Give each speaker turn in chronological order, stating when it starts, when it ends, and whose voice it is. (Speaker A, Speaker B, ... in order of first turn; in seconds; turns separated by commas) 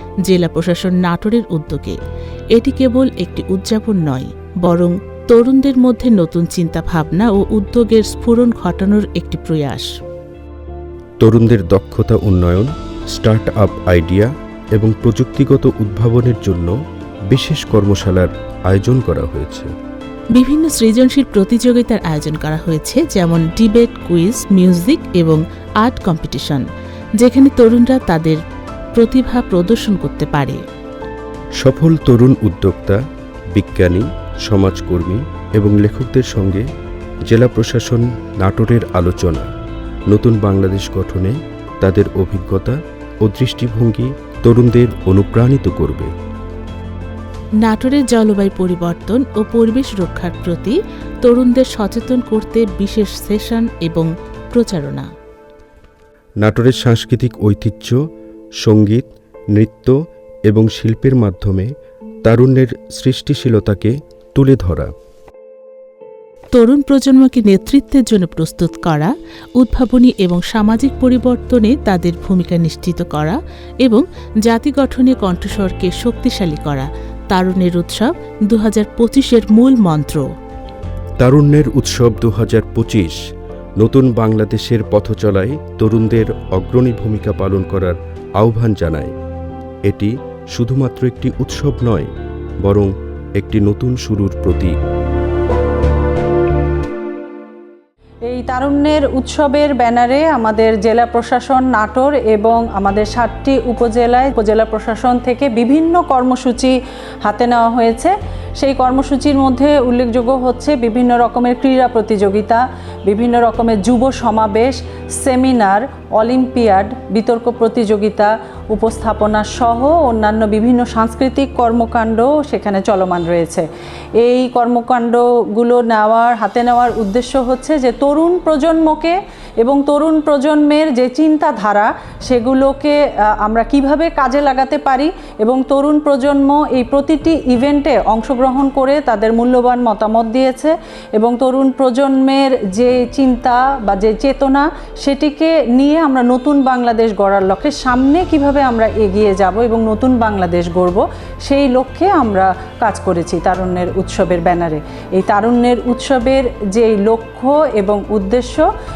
Speaker A: 0.2-2.0, Speaker A: 2.5-9.9, Speaker B: 11.2-16.7, Speaker B: 17.3-19.7, Speaker A: 20.3-26.6, Speaker A: 27.2-28.4, Speaker A: 28.9-30.6, Speaker B: 31.6-33.0, Speaker B: 33.5-36.6, Speaker B: 37.3-39.5, Speaker B: 40.1-46.1, Speaker A: 47.6-55.1, Speaker B: 56.4-58.0, Speaker B: 58.6-59.9, Speaker B: 60.5-61.7, Speaker B: 62.2-64.9, Speaker A: 66.5-80.2, Speaker B: 81.2-83.2, Speaker B: 83.8-89.1, Speaker B: 89.8-92.1, Speaker B: 92.6-94.7, Speaker C: 98.2-123.7, Speaker C: 124.2-158.7